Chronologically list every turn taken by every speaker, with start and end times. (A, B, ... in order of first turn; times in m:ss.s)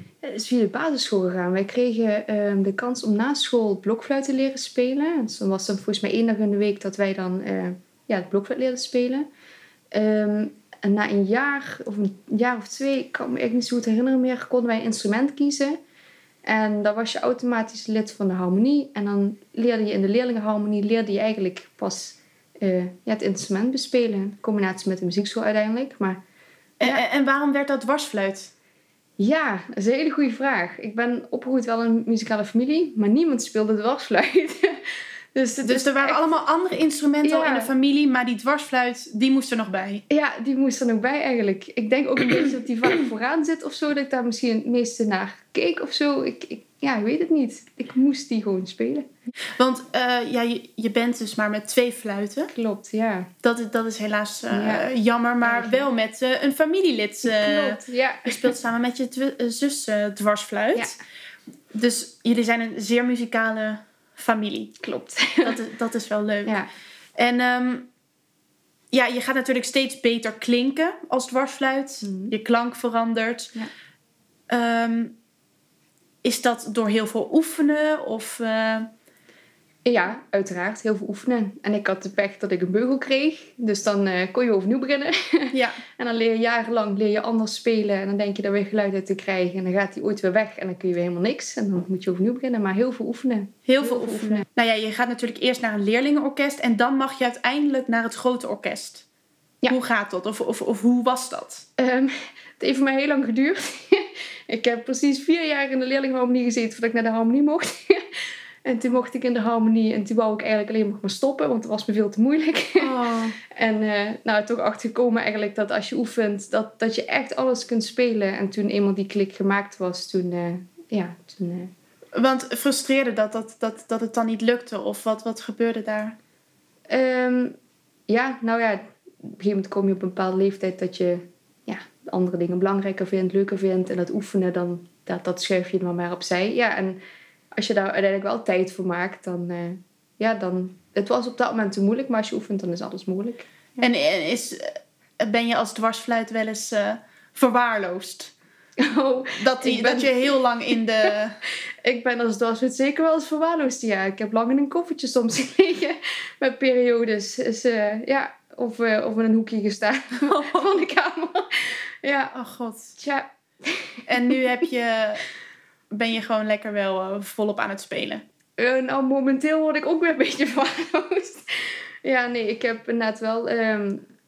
0:00.2-0:09.3 A
0:09.9-0:15.8 A
0:16.4-0:26.2 A
0:26.8-0:28.5 B
0:29.2-0:36.3 A
0:35.6-0:40.0 B
0:37.2-0:37.7 A
0:40.1-0:49.1 A
0:49.6-0:52.5 B
0:52.5-0:53.3 A
0:53.4-1:00.9 B
0:54.5-0:54.9 A
0:55.4-0:55.9 A
0:57.2-0:58.5 A
1:01.7-1:04.8 B
1:04.8-1:05.6 A
1:05.4-1:07.9 B
1:08.9-1:13.5 B
1:12.0-1:12.3 A
1:14.5-1:15.2 B
1:16.2-1:18.9 B
1:19.8-1:34.4 A
1:25.5-1:25.8 B
1:33.7-1:39.0 B
1:39.7-1:41.6 B
1:41.8-2:01.7 A
1:52.8-1:53.4 B
2:02.1-2:06.2 B
2:06.9-2:07.6 A
2:08.1-2:17.0 A
2:17.5-2:23.5 A
2:23.8-2:28.3 B
2:28.8-2:31.1 A
2:29.4-2:31.4 B
2:31.7-2:42.4 A
2:40.2-2:40.6 B
2:42.3-2:42.9 B
2:43.0-2:44.4 A
2:44.1-2:45.3 B
2:45.9-2:48.2 B
2:48.6-2:54.0 A